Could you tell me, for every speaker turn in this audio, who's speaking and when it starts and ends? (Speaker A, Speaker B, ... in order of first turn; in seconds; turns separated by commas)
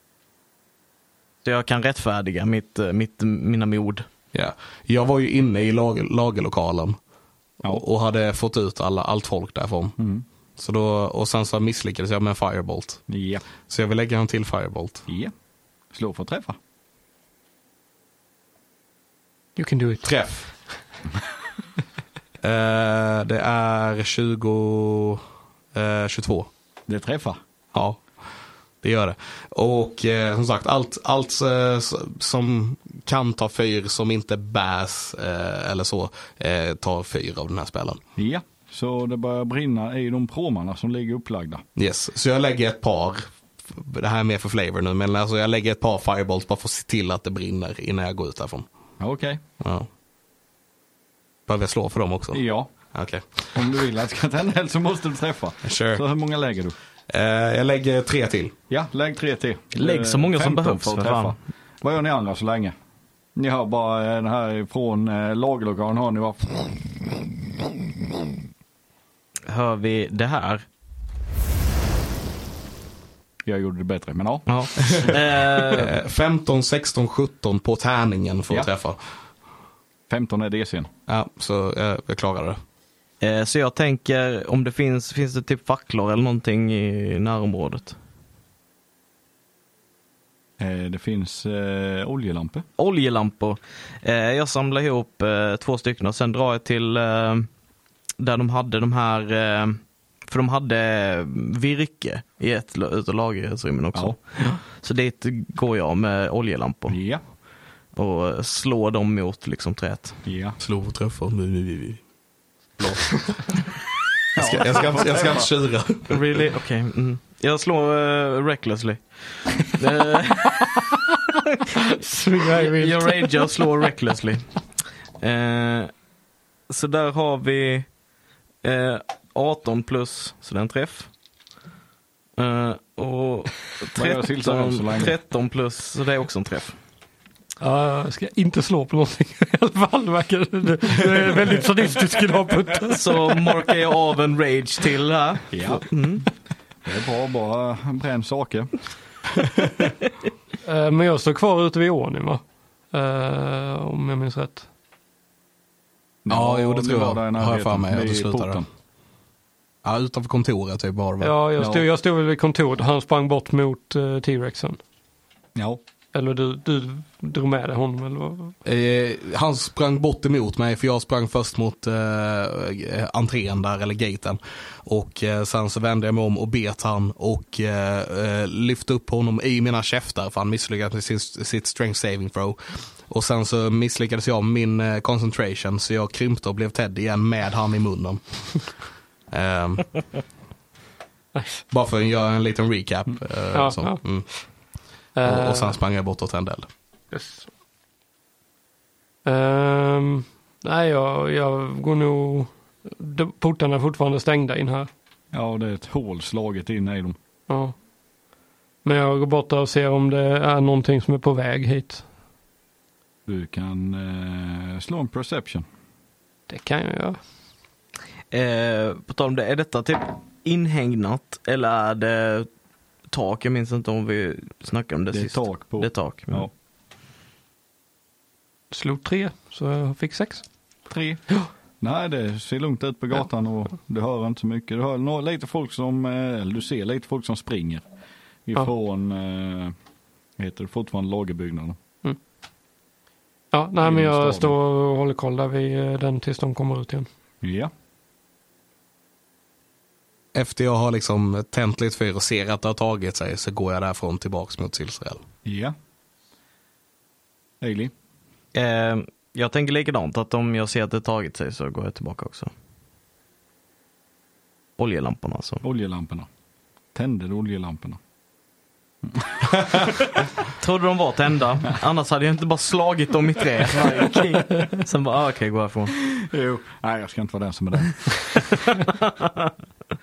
Speaker A: 1.4-4.0, Speaker B: 4.3-7.0, Speaker B: 7.6-9.9, Speaker C: 10.0-10.2, Speaker B: 10.6-13.0, Speaker C: 13.1-13.4, Speaker B: 13.7-15.1, Speaker C: 15.9-16.6, Speaker D: 19.6-20.1, Speaker B: 20.0-20.5, Speaker B: 22.4-25.2, Speaker B: 25.7-26.5, Speaker C: 26.9-27.4, Speaker B: 27.7-28.0, Speaker B: 28.8-38.0, Speaker C: 38.1-41.6, Speaker B: 41.8-48.7, Speaker C: 49.0-49.4, Speaker B: 49.6-49.9, Speaker B: 51.5-53.4, Speaker C: 52.3-52.7, Speaker C: 53.5-56.8, Speaker B: 55.6-56.0, Speaker B: 57.1-58.5, Speaker C: 58.7-62.7, Speaker A: 59.7-61.3, Speaker C: 63.4-67.0, Speaker A: 69.5-70.6, Speaker C: 73.5-75.1, Speaker A: 74.5-75.9, Speaker B: 75.6-79.0, Speaker C: 80.1-80.9, Speaker B: 81.1-82.6, Speaker A: 83.2-88.0, Speaker C: 90.6-92.6, Speaker A: 92.8-97.5, Speaker A: 98.2-107.0, Speaker C: 106.9-107.2, Speaker A: 107.9-110.2, Speaker C: 110.2-110.6, Speaker B: 110.6-112.0, Speaker B: 112.8-113.6, Speaker C: 114.3-115.5, Speaker B: 114.3-116.2, Speaker A: 116.1-120.8, Speaker D: 122.0-123.5, Speaker A: 122.5-124.6, Speaker A: 125.2-125.9, Speaker A: 126.7-127.9, Speaker A: 128.6-131.1, Speaker A: 132.4-136.8, Speaker C: 133.9-135.1, Speaker D: 137.6-143.6, Speaker A: 142.9-146.3, Speaker C: 145.5-145.9, Speaker C: 146.8-148.8, Speaker D: 150.6-154.7, Speaker C: 156.2-158.7, Speaker B: 156.3-158.6, Speaker B: 159.8-161.3, Speaker D: 161.2-164.8, Speaker C: 161.6-161.8, Speaker D: 166.1-168.6, Speaker B: 168.6-188.8, Speaker B: 189.3-190.1, Speaker D: 191.3-191.6, Speaker B: 191.7-194.3, Speaker D: 193.5-194.4, Speaker D: 195.2-195.7, Speaker B: 195.2-196.7, Speaker D: 197.1-197.5, Speaker D: 199.2-204.9, Speaker C: 205.3-207.2, Speaker D: 207.5-207.7, Speaker D: 208.8-212.0, Speaker C: 213.3-215.6, Speaker D: 216.5-217.2, Speaker A: 218.3-222.5, Speaker A: 223.1-226.5, Speaker C: 225.1-226.5, Speaker D: 228.7-230.4, Speaker C: 230.9-237.8, Speaker C: 238.4-239.7, Speaker C: 240.4-241.8, Speaker D: 243.5-247.1, Speaker C: 243.8-244.5, Speaker C: 247.4-247.7, Speaker B: 250.3-255.2, Speaker C: 255.4-255.7, Speaker C: 257.6-257.9, Speaker A: 258.5-262.5, Speaker A: 264.8-265.6, Speaker C: 265.6-266.3, Speaker C: 266.9-268.0, Speaker C: 269.1-269.8, Speaker A: 270.6-275.9, Speaker C: 276.0-278.4, Speaker A: 278.8-279.5